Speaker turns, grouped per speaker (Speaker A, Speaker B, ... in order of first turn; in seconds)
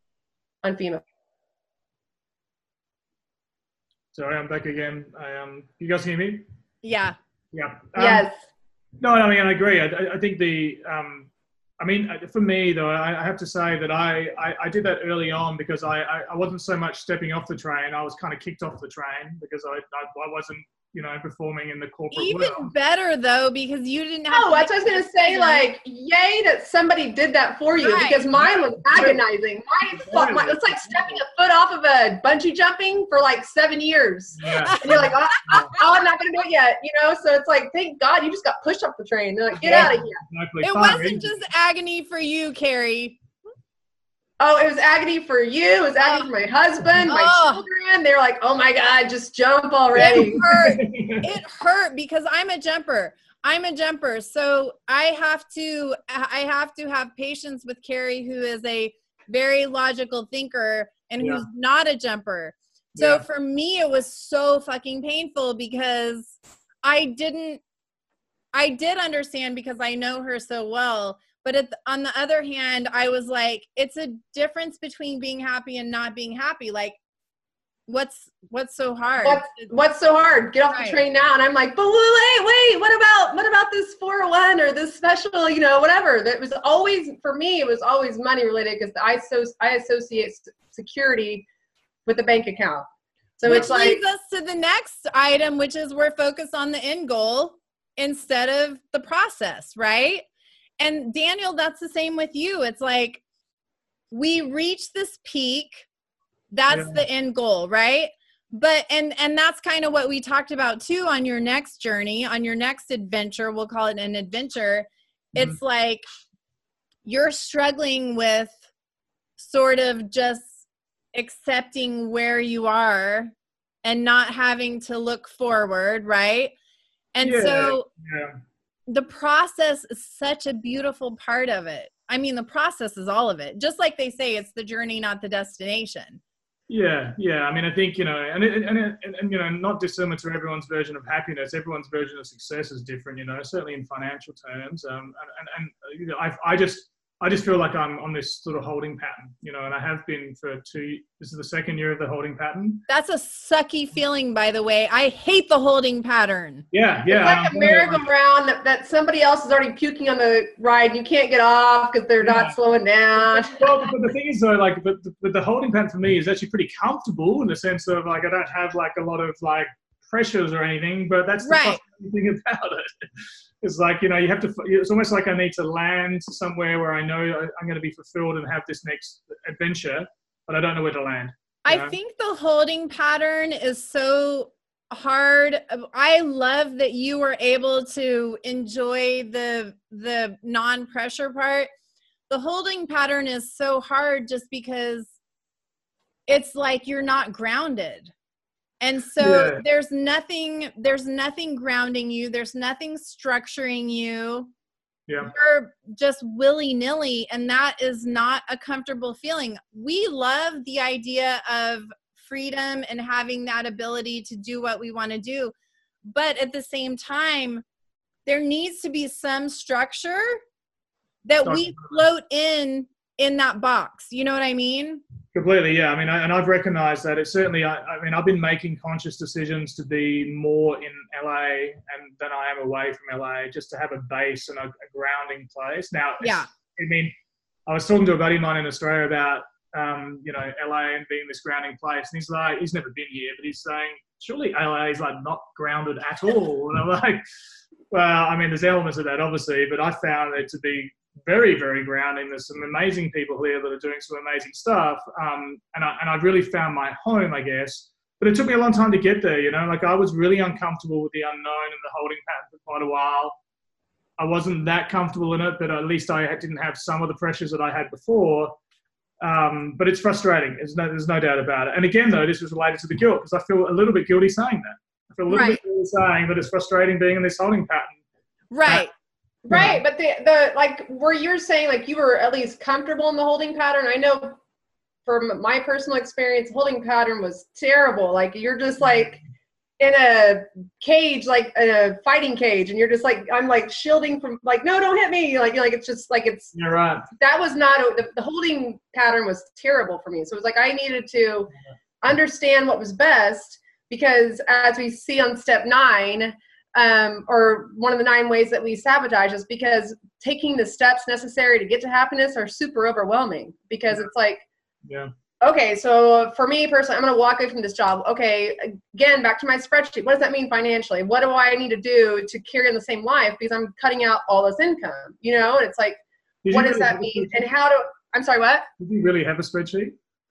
Speaker A: 0.6-1.0, 8.0-8.3, 24.3-40.2, 44.4-50.4, 79.2-91.5, 92.0-92.9, 93.4-94.0, 157.1-163.9, 275.3-275.6, 279.4-284.4, 285.1-289.2, 289.8-296.5, 297.2-301.5, 302.0-314.4, 315.4-328.6
Speaker B: 4.1-6.5, 7.5-8.2, 9.0-22.7, 28.3-29.2, 30.0-31.1, 34.4-35.7, 39.6-41.4, 49.9-51.4, 61.2-61.5, 62.9-63.2, 106.7-107.0, 127.2-128.4, 136.7-152.8, 156.7-158.1, 162.2-162.5, 163.2-182.0, 199.2-199.6, 205.1-205.3, 221.4-222.0, 225.3-237.1, 237.7-247.2, 247.9-263.4, 264.2-268.6, 269.2-278.0, 279.5-279.8, 296.5-297.1, 314.8-315.1, 326.4-327.4, 328.8-329.9
Speaker C: 6.8-7.2, 22.1-25.7, 27.8-28.2, 34.6-35.1, 40.6-43.2, 46.0-46.3, 47.0-47.6, 50.0-67.6, 68.5-77.0, 77.9-79.7, 80.7-81.0, 93.4-100.2, 100.8-103.2, 104.1-105.9, 106.5-116.0, 117.0-118.6, 119.4-120.6, 121.1-123.3, 123.8-126.5, 127.1-127.9, 128.9-136.2, 152.9-156.7, 171.4-171.8, 181.6-191.7, 192.3-195.1, 196.3-198.1, 198.8-204.5, 205.2-215.5, 216.1-217.6, 218.2-220.4, 221.2-225.0, 236.2-236.5, 275.3-275.6, 278.5-278.9